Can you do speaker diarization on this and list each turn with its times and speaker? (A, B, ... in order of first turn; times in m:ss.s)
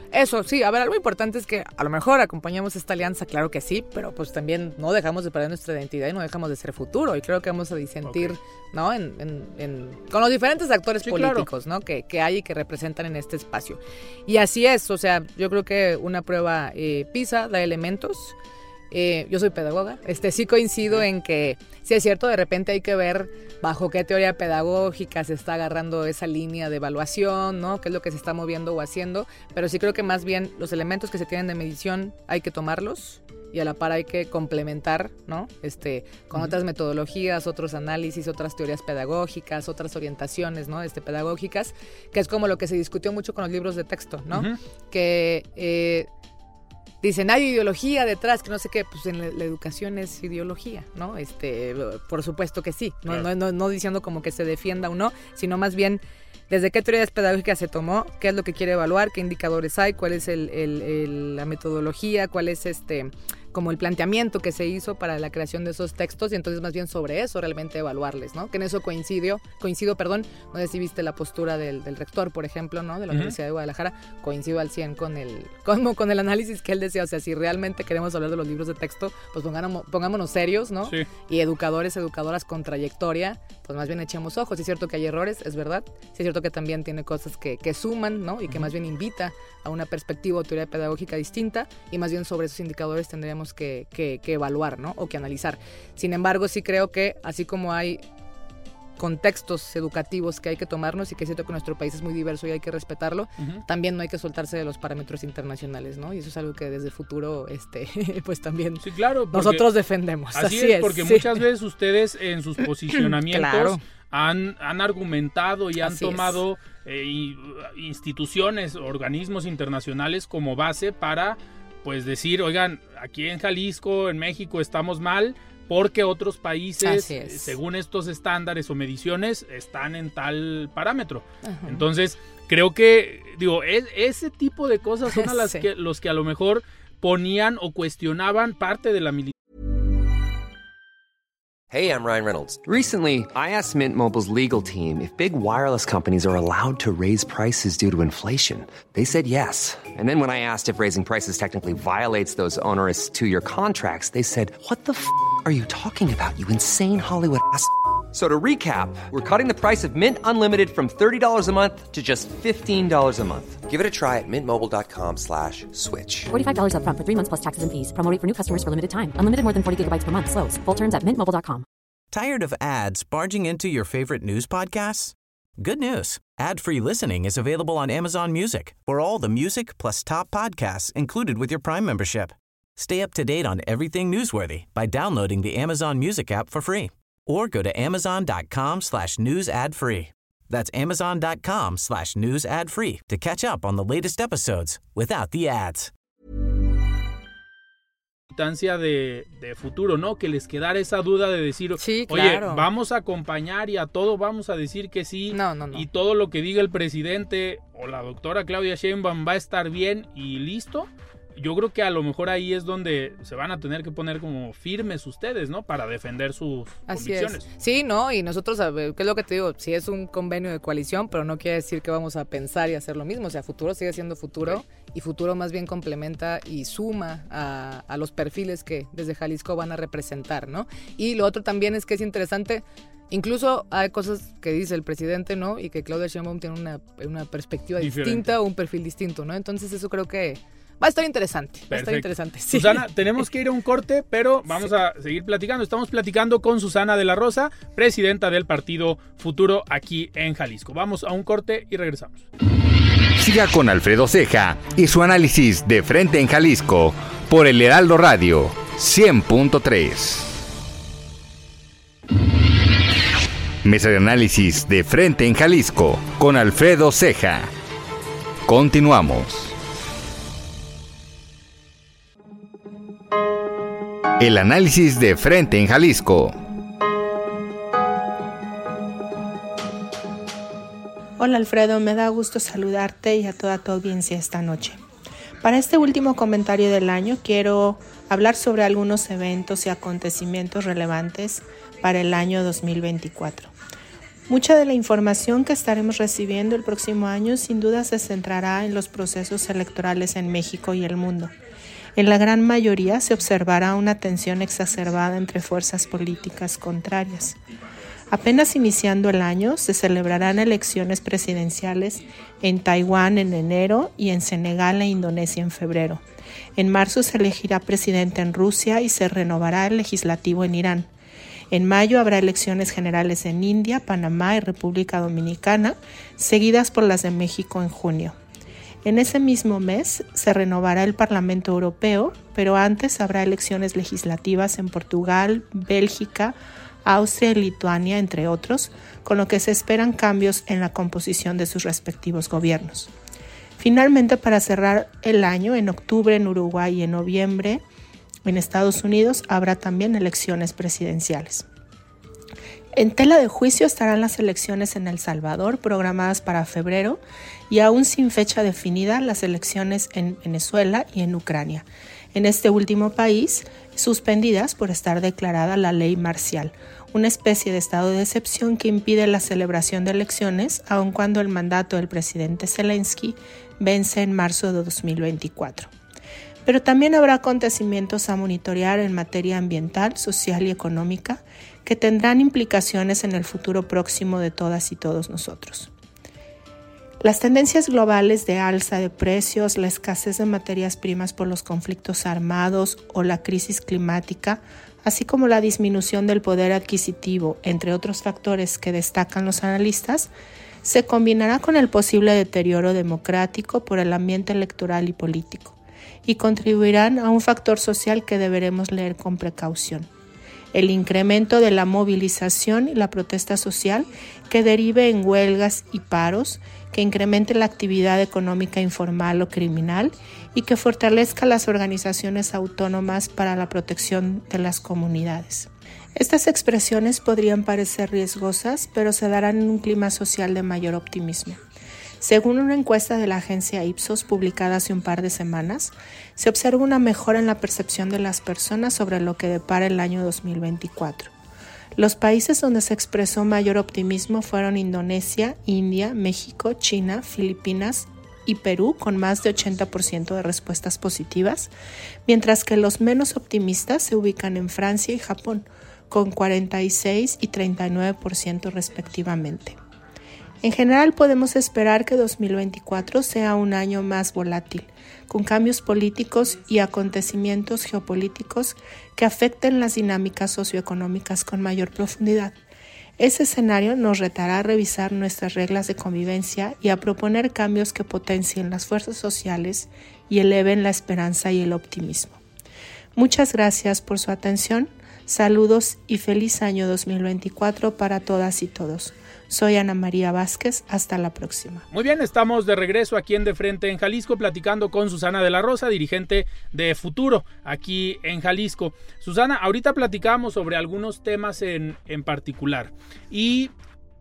0:00.1-0:18.4 A
0:08.0-0:08.4 B
0:11.0-0:11.5 B
0:18.9-0:46.1 A
0:44.3-0:44.6 B
0:47.0-1:38.0 A
1:13.1-1:13.4 B
1:39.0-1:51.3 A
1:43.4-1:43.6 B
1:48.8-1:49.7 B
1:50.4-2:19.3 B
1:52.9-1:53.8 A
1:55.8-1:56.4 A
2:06.8-2:07.6 A
2:11.4-2:11.8 A
2:15.1-2:15.6 A
2:21.7-2:46.3 C
2:46.3-2:51.7 D
2:52.1-3:15.9 E
3:18.3-3:37.4 B
3:21.8-3:22.7 A
3:25.3-3:25.9 A
3:36.9-4:03.2 A
3:57.8-3:58.3 B
4:01.7-4:12.3 B
4:13.2-4:20.4 F
4:23.6-4:27.5 F
4:28.5-4:29.6 F
4:34.2-4:36.4 F
4:41.2-4:44.8 G
4:45.4-4:53.5 G
4:54.3-5:01.3 G
5:02.0-5:07.4 G
5:08.1-5:16.0 G
5:16.6-5:20.9 G
5:21.5-5:28.2 G
5:28.8-5:42.9 G
5:43.6-5:47.6 G
5:48.2-5:51.4 G
5:52.8-6:15.7 G
6:16.5-6:25.7 G
6:27.0-6:40.1 G
6:40.6-6:49.9 G
6:50.5-7:11.4 G
7:12.0-7:21.1 G
7:21.8-7:31.5 G
7:32.1-7:39.6 G
7:40.4-7:52.3 G
7:53.0-8:02.2 G
8:03.0-8:11.6 G
8:11.7-8:23.5 B